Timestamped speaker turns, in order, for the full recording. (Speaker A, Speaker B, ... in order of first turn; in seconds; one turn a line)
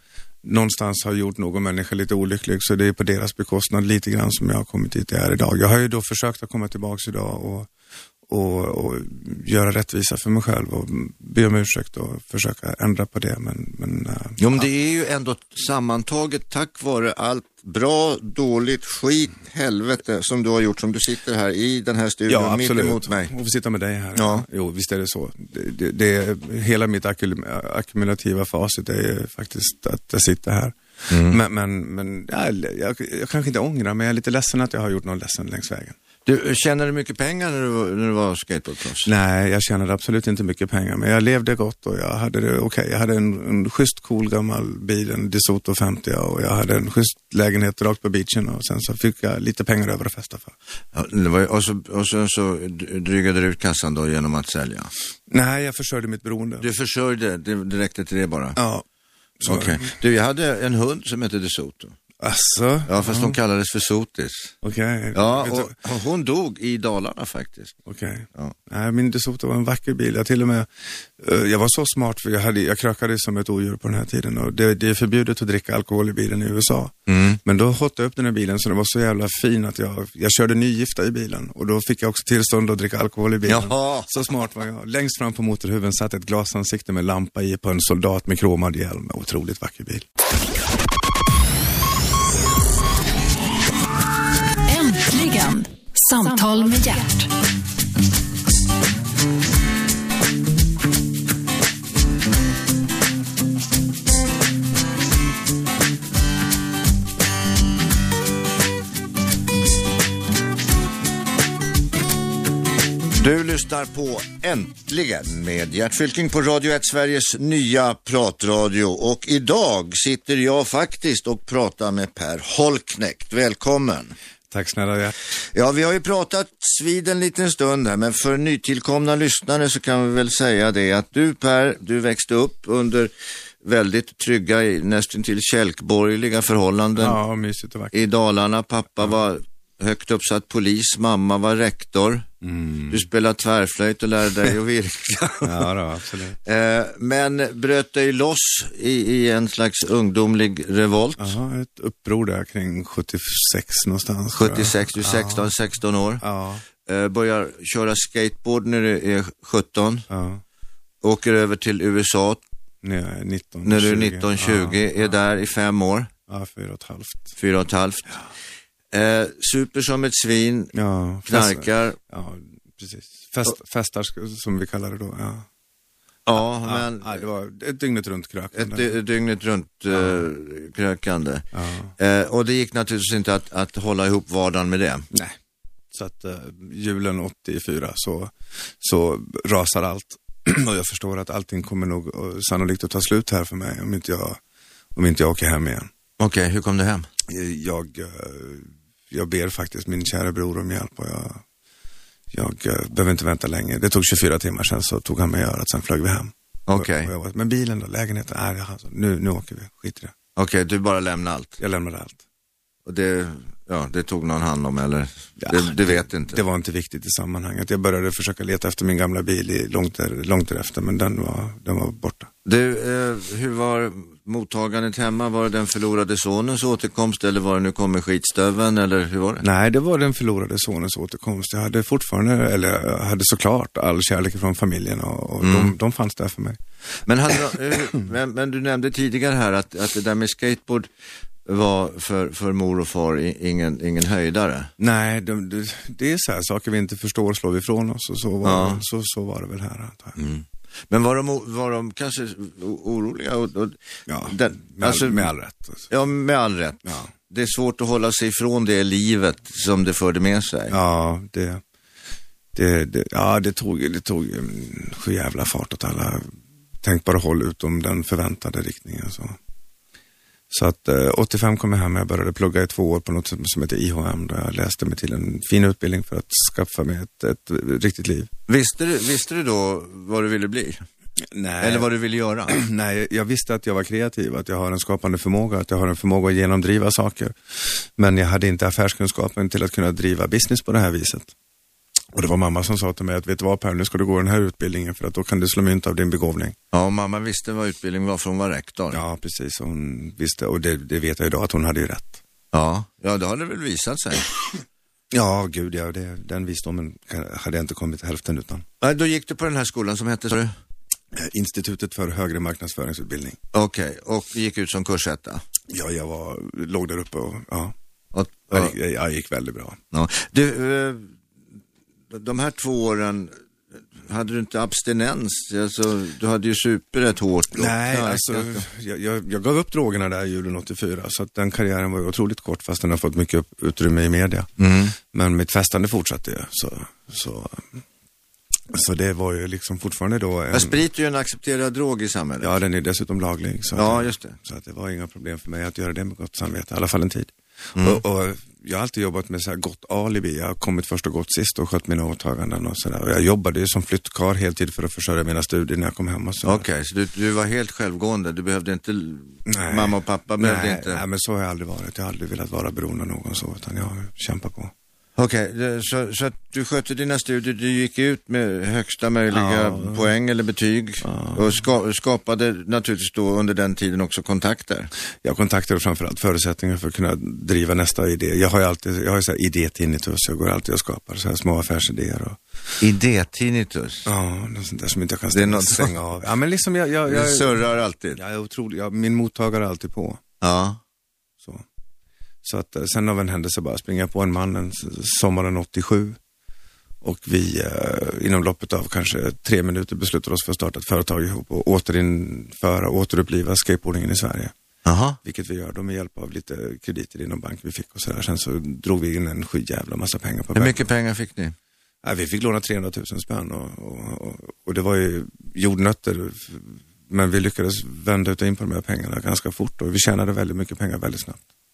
Speaker A: 0.4-7.7
Speaker A: 8.3-14.7
Speaker B: 14.4-23.3
Speaker A: 22.3-36.0
Speaker B: 24.1-24.5
Speaker B: 31.1-31.4
Speaker B: 36.3-39.1
Speaker A: 39.0-50.5
Speaker B: 50.9-54.9
Speaker A: 55.3-56.7
Speaker B: 56.6-58.6
Speaker A: 58.6-58.9
Speaker A: 59.4-59.9
Speaker B: 59.5-62.0
Speaker A: 62.2-63.4
Speaker B: 62.9-64.5
Speaker A: 64.6-65.8
Speaker B: 65.1-67.8
Speaker A: 67.9-90.1
Speaker B: 77.1-77.4
Speaker B: 83.5-84.1
Speaker C: 94.7-97.3
Speaker B: 113.2-124.2
Speaker A: 124.5-125.2
Speaker B: 125.4-133.1
Speaker B: 133.6-137.2
Speaker A: 137.0-138.0
Speaker B: 137.9-142.3
Speaker A: 142.4-143.1
Speaker B: 142.9-145.7
Speaker A: 145.4-146.4
Speaker B: 146.4-151.3
Speaker A: 151.2-155.5
Speaker B: 154.3-156.2
Speaker A: 156.2-156.6
Speaker B: 156.8-160.1
Speaker A: 160.1-160.4
Speaker B: 161.0-162.4
Speaker A: 162.8-165.1
Speaker B: 163.7-166.1
Speaker A: 166.3-167.3
Speaker B: 167.4-168.2
Speaker B: 168.9-170.7
Speaker A: 170.7-175.5
Speaker B: 171.3-172.0
Speaker B: 176.3-177.2
Speaker A: 176.3-178.9
Speaker B: 178.5-181.5
Speaker A: 179.9-180.2
Speaker A: 181.5-181.9
Speaker B: 182.0-185.1
Speaker A: 185.1-185.4
Speaker A: 185.9-194.4
Speaker A: 194.9-195.9
Speaker B: 196.2-197.1
Speaker A: 197.3-201.4
Speaker A: 202.3-210.1
Speaker B: 206.7-207.1
Speaker B: 210.4-211.6
Speaker A: 211.6-212.2
Speaker B: 212.9-216.4
Speaker A: 215.4-222.3
Speaker B: 222.4-229.5
Speaker A: 229.4-236.6
Speaker B: 235.4-235.7
Speaker B: 237.1-240.9
Speaker B: 241.5-244.7
Speaker A: 244.8-250.2
Speaker B: 248.4-248.8
Speaker B: 250.2-255.3
Speaker A: 254.1-255.9
Speaker B: 255.9-260.8
Speaker A: 256.9-257.1
Speaker A: 260.7-261.6
Speaker A: 262.5-266.3
Speaker A: 266.8-269.4
Speaker A: 270.5-278.3
Speaker B: 278.5-280.8
Speaker A: 281.3-281.9
Speaker B: 281.6-282.6
Speaker A: 282.5-291.3
Speaker A: 292.1-296.6
Speaker B: 296.7-299.0
Speaker A: 298.9-302.2
Speaker B: 302.5-304.3
Speaker A: 305.1-308.6
Speaker B: 308.8-310.5
Speaker A: 311.1-313.4
Speaker B: 313.5-315.4
Speaker A: 315.7-317.7
Speaker B: 318.1-318.8
Speaker A: 318.5-319.8
Speaker B: 319.9-321.1
Speaker B: 322.1-323.3
Speaker B: 324.0-328.6
Speaker A: 327.6-337.8
Speaker B: 334.6-335.0
Speaker A: 338.7-340.8
Speaker B: 340.5-342.6
Speaker A: 342.4-356.6
Speaker B: 343.8-344.4
Speaker B: 347.8-348.0
Speaker B: 356.4-361.0
Speaker A: 359.5-364.7
Speaker B: 365.2-374.9
Speaker A: 369.3-370.1
Speaker A: 371.0-371.6
Speaker A: 375.2-382.4
Speaker B: 382.8-384.1
Speaker A: 384.1-387.6
Speaker B: 385.3-385.9
Speaker B: 387.1-388.2
Speaker A: 388.2-390.2
Speaker B: 390.4-390.8
Speaker A: 392.4-396.2
Speaker A: 397.0-404.5
Speaker B: 404.9-405.2
Speaker A: 405.2-410.8
Speaker B: 410.6-411.6
Speaker A: 412.0-421.4